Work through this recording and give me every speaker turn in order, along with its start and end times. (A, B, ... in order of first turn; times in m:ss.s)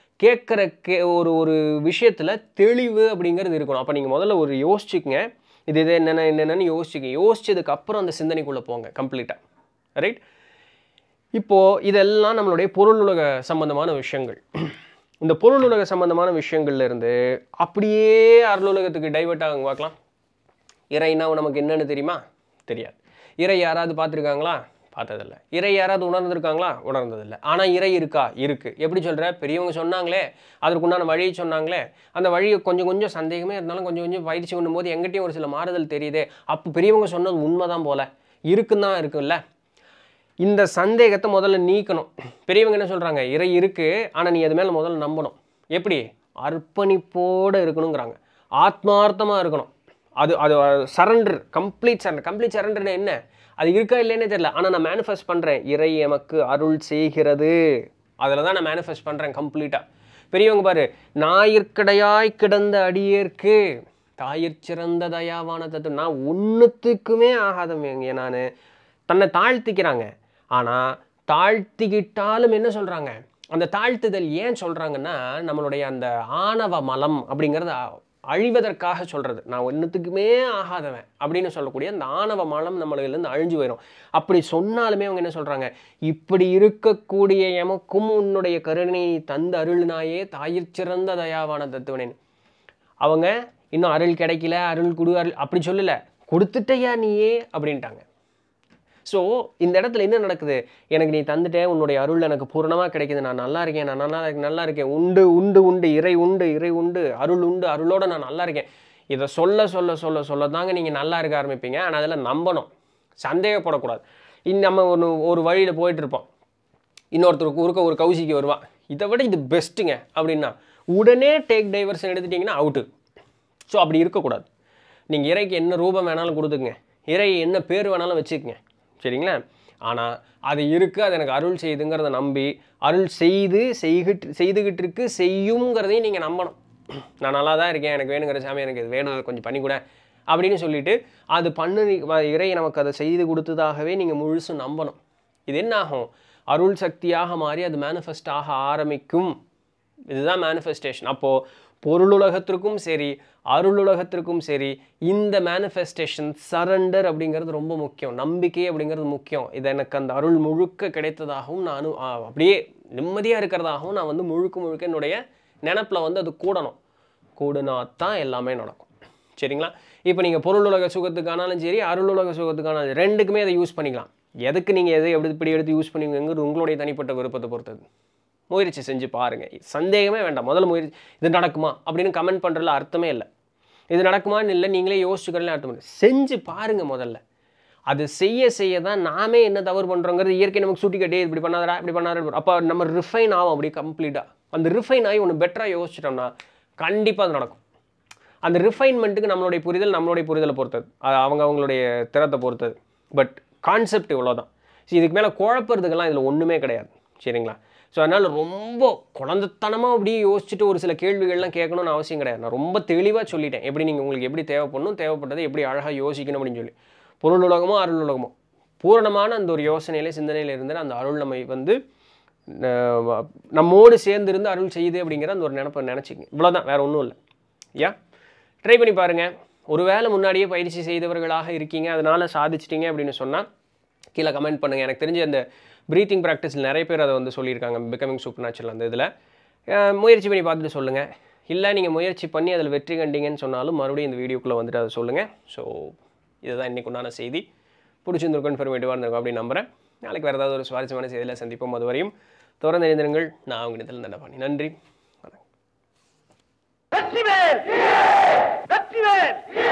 0:00.2-0:09.4 A
0:11.4-0:20.0 A
0:20.9-0:39.4 A
0:40.4-0:57.6 A
0:58.2-1:03.6 A
1:04.2-1:08.4 A
1:09.1-1:32.2 A
1:33.0-1:38.0 A
1:39.1-1:52.7 A
1:53.2-1:56.3 A
1:57.1-2:02.9 A
2:03.7-2:04.5 A
2:05.1-2:16.6 A
2:17.2-2:29.4 A
2:30.1-2:46.8 A
2:47.4-2:57.8 A
2:58.5-3:03.3 A
3:03.9-3:07.2 A
3:07.9-3:17.6 A
3:18.4-3:41.8 A
3:42.5-3:47.2 A
3:48.6-3:53.5 A
3:54.2-3:59.1 A
3:59.7-4:07.5 A
4:08.0-4:15.4 A